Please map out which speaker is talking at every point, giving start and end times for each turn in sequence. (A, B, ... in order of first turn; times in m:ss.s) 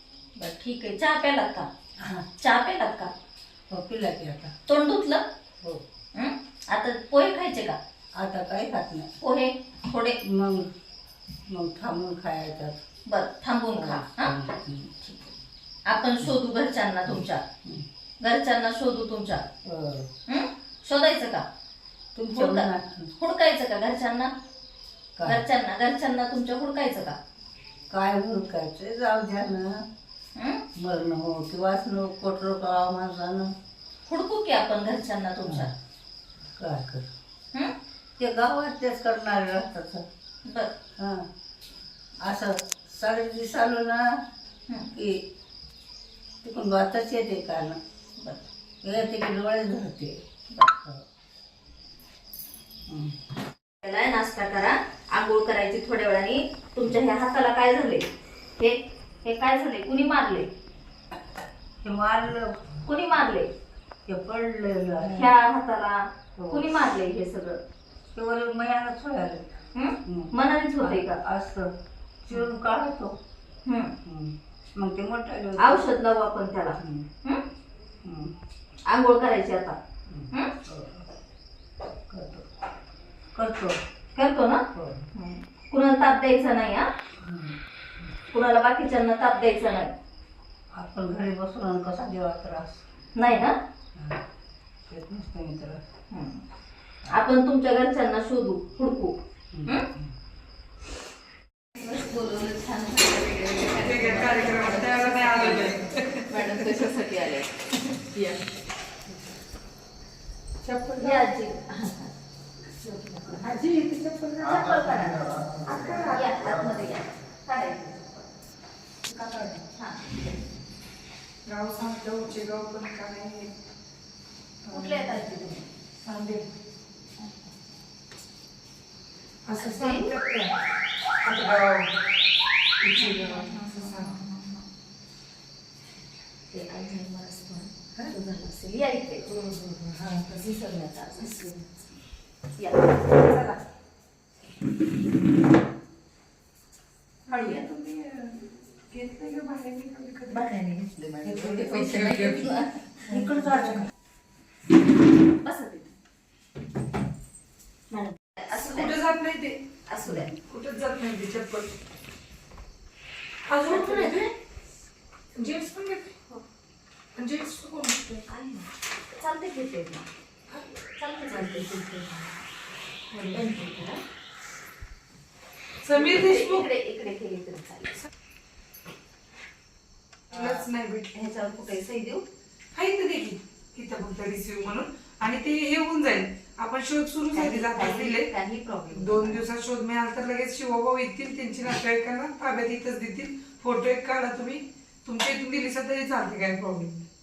0:00.4-0:01.7 A
0:02.0-0:02.3 B
0:02.4-0:03.1 A
0:03.7-0:04.5 B
0:04.7-0:05.2 A
0:06.2-0:07.8 A
0:08.2-0:09.1 B
0:09.2-0:10.2 A
0:10.2-0:10.7 B
0:11.5-0:12.8 B
0:13.1-0:14.3 A
0:13.7-0:15.0 B
0:15.9-0:17.4 A
0:18.2-0:19.4 A
0:19.6-0:20.1 B
0:20.3-0:21.5 A
0:22.2-0:23.1 B
0:22.3-0:24.3 A
0:25.2-0:25.4 B
0:25.2-0:27.2 A
0:27.9-0:29.9 B
0:30.4-0:30.6 A
0:30.8-0:33.5 B
0:34.0-0:35.7 A
0:36.6-0:37.1 B
0:38.2-0:40.0 B
0:40.5-0:40.7 A
0:41.0-0:41.2 B
0:42.2-0:44.0 B
0:44.9-0:45.2 B
0:46.4-0:47.8 B
0:48.2-0:48.5 A
0:48.8-0:51.0 B
0:52.9-0:53.2 B
0:53.8-0:58.1 A
0:58.6-1:00.5 A
1:01.8-1:02.5 B
1:02.9-1:03.5 A
1:04.1-1:05.3 B
1:05.1-1:07.6 A
1:06.4-1:06.7 B
1:08.2-1:09.5 B
1:09.8-1:11.2 A
1:10.0-1:11.7 B
1:12.2-1:13.2 B
1:13.6-1:13.9 A
1:14.0-1:15.9 B
1:15.6-1:17.4 A
1:16.8-1:17.1 B
1:18.0-1:18.3 B
1:18.9-1:19.8 A
1:20.1-1:21.1 B
1:22.1-1:22.5 B
1:23.4-1:23.8 B
1:24.2-1:26.9 A
1:24.7-1:25.1 B
1:27.2-1:27.6 B
1:28.3-1:29.9 A
1:30.7-1:32.8 B
1:33.2-1:33.6 A
1:34.0-1:34.2 B
1:34.9-1:35.8 B
1:36.1-1:36.4 A
1:37.1-1:39.9 A
1:39.5-1:40.1 B
1:41.8-1:48.6 A
1:43.8-1:46.7 C
1:50.6-1:51.3 C
1:51.0-1:52.1 A
1:53.3-1:54.7 C
1:54.4-1:58.3 A
1:55.7-1:56.5 C
1:59.1-1:59.6 C
1:59.7-2:00.0 A
2:01.4-2:03.5 C
2:04.7-2:05.1 C
2:04.7-2:05.6 A
2:06.0-2:06.5 C
2:09.5-2:10.5 C
2:09.6-2:10.1 A
2:11.2-2:11.9 C
2:12.8-2:14.2 C
2:13.0-2:14.7 A
2:16.5-2:19.3 A
2:19.3-2:20.3 C
2:20.2-2:21.7 A
2:21.2-2:21.6 C
2:22.6-2:23.2 A
2:23.1-2:23.6 C
2:27.3-2:30.5 C
2:27.3-2:27.7 A
2:30.3-2:33.8 A
2:31.2-2:32.5 C
2:33.1-2:33.9 B
2:33.2-2:33.7 C
2:35.4-2:35.9 A
2:37.9-2:38.9 A
2:38.6-2:39.6 C
2:39.9-2:40.3 A
2:40.4-2:41.7 C
2:43.5-2:44.3 C
2:43.7-2:44.3 A
2:45.4-2:46.1 C
2:47.2-2:48.2 C
2:48.3-2:50.1 A
2:50.5-2:50.8 C
2:51.0-2:52.3 A
2:51.3-2:51.9 C
2:53.1-2:53.5 C
2:53.3-2:54.0 A
2:55.8-2:56.7 C
2:55.9-2:58.1 A
3:00.3-3:01.1 C
3:00.3-3:02.2 A
3:02.7-3:08.3 C
3:07.3-3:09.4 A
3:08.9-3:17.0 C